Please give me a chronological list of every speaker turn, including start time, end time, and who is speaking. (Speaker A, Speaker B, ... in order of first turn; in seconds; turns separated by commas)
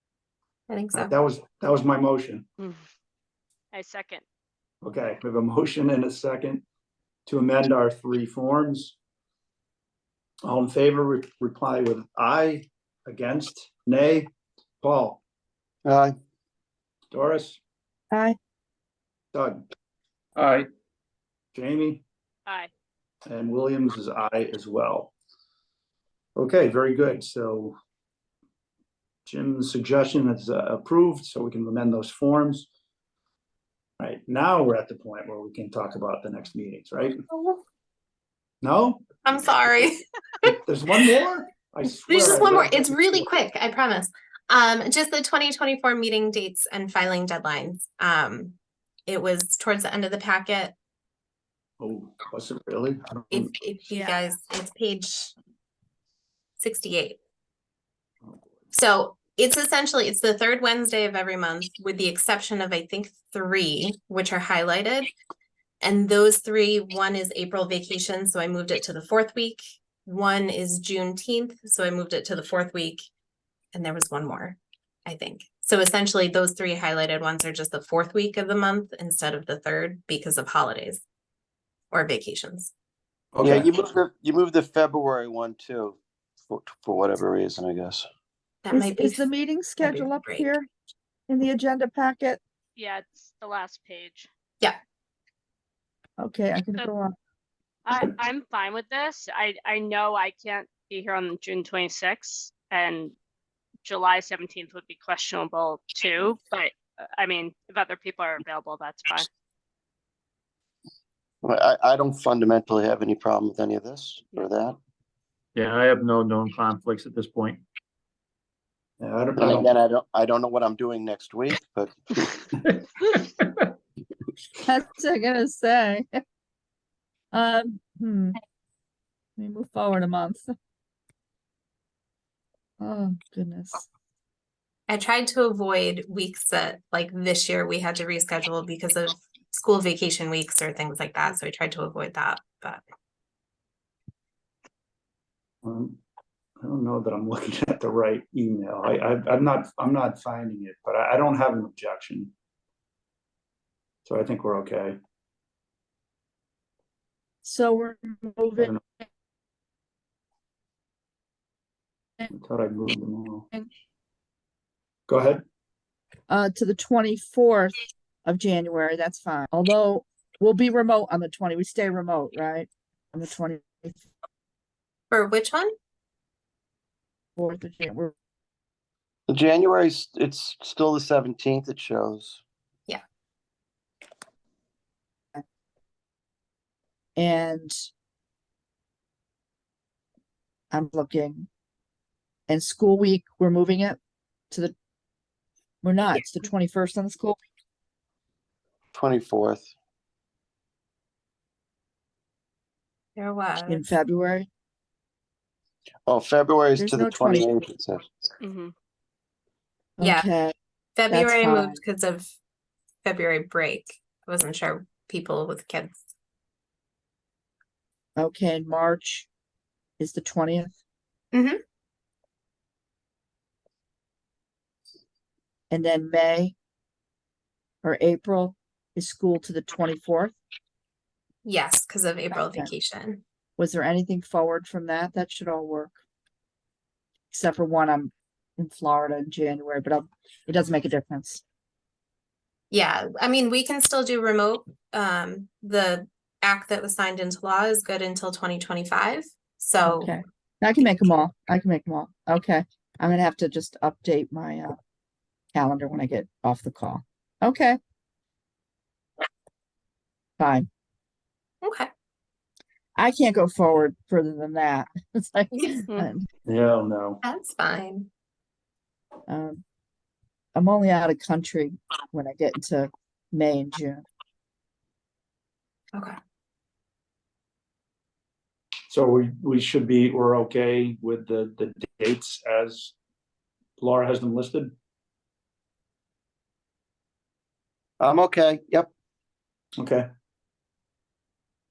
Speaker A: 0.7-1.1, Speaker B: 0.9-2.5, Speaker C: 3.7-4.2, Speaker B: 4.8-6.6, Speaker B: 7.2-8.9, Speaker B: 10.4-15.2, Speaker D: 15.8-16.1, Speaker B: 17.1-17.6, Speaker E: 18.1-18.4, Speaker B: 19.3-19.6, Speaker F: 20.4-20.6, Speaker B: 21.5-22.0, Speaker B: 23.3-25.1, Speaker B: 26.4-27.8, Speaker B: 29.2-32.7, Speaker B: 34.0-37.2, Speaker B: 38.6-39.1, Speaker A: 39.2-40.5, Speaker B: 40.5-43.3, Speaker A: 42.1-48.5, Speaker A: 49.1-50.7, Speaker B: 51.8-53.5, Speaker A: 53.3-55.3, Speaker E: 53.9-54.3, Speaker A: 56.6-57.2, Speaker A: 58.7-65.1, Speaker A: 65.8-73.0, Speaker A: 73.7-81.0, Speaker A: 81.9-82.7, Speaker B: 83.4-83.7, Speaker D: 83.4-88.1, Speaker A: 88.6-89.2, Speaker E: 88.7-90.7, Speaker A: 89.8-90.5, Speaker E: 91.3-92.4, Speaker C: 92.8-94.3, Speaker E: 96.2-97.1, Speaker C: 97.8-103.1, Speaker C: 103.8-109.3, Speaker D: 111.4-114.8, Speaker F: 115.5-117.6, Speaker B: 119.0-119.7, Speaker D: 119.4-122.0, Speaker E: 124.6-126.0, Speaker E: 127.3-128.3, Speaker E: 129.4-130.5, Speaker E: 132.8-133.8, Speaker A: 134.9-142.8, Speaker B: 145.6-146.0, Speaker B: 146.6-152.3, Speaker B: 154.1-155.0, Speaker E: 157.4-158.7, Speaker B: 162.3-163.5, Speaker B: 165.1-165.4, Speaker E: 166.3-174.1, Speaker A: 175.1-175.7, Speaker E: 177.4-178.1, Speaker D: 179.3-182.4, Speaker E: 187.2-187.8, Speaker E: 190.7-191.5, Speaker E: 192.5-194.0, Speaker E: 195.8-197.4, Speaker D: 198.9-199.7, Speaker A: 203.2-203.8, Speaker E: 203.7-204.5, Speaker D: 206.1-208.1, Speaker E: 206.8-207.5, Speaker C: 208.4-208.7, Speaker E: 210.0-210.5, Speaker A: 210.0-210.3, Speaker A: 210.9-212.3, Speaker E: 211.1-211.8, Speaker A: 213.0-216.0, Speaker E: 218.2-219.3, Speaker E: 220.0-220.7, Speaker A: 221.3-221.6, Speaker E: 225.7-226.5, Speaker E: 227.8-230.3, Speaker A: 231.4-233.2, Speaker E: 232.3-232.7, Speaker E: 233.6-235.9, Speaker E: 237.3-241.4, Speaker A: 242.7-250.1, Speaker E: 249.8-254.8, Speaker E: 255.5-257.8, Speaker E: 260.4-260.7, Speaker A: 261.6-261.9, Speaker E: 263.0-266.3, Speaker A: 265.5-265.8, Speaker B: 266.4-267.2, Speaker A: 267.2-268.1, Speaker E: 269.3-269.6, Speaker E: 270.5-274.0, Speaker B: 278.9-282.9, Speaker B: 283.8-284.7, Speaker D: 288.0-288.9, Speaker B: 289.8-290.1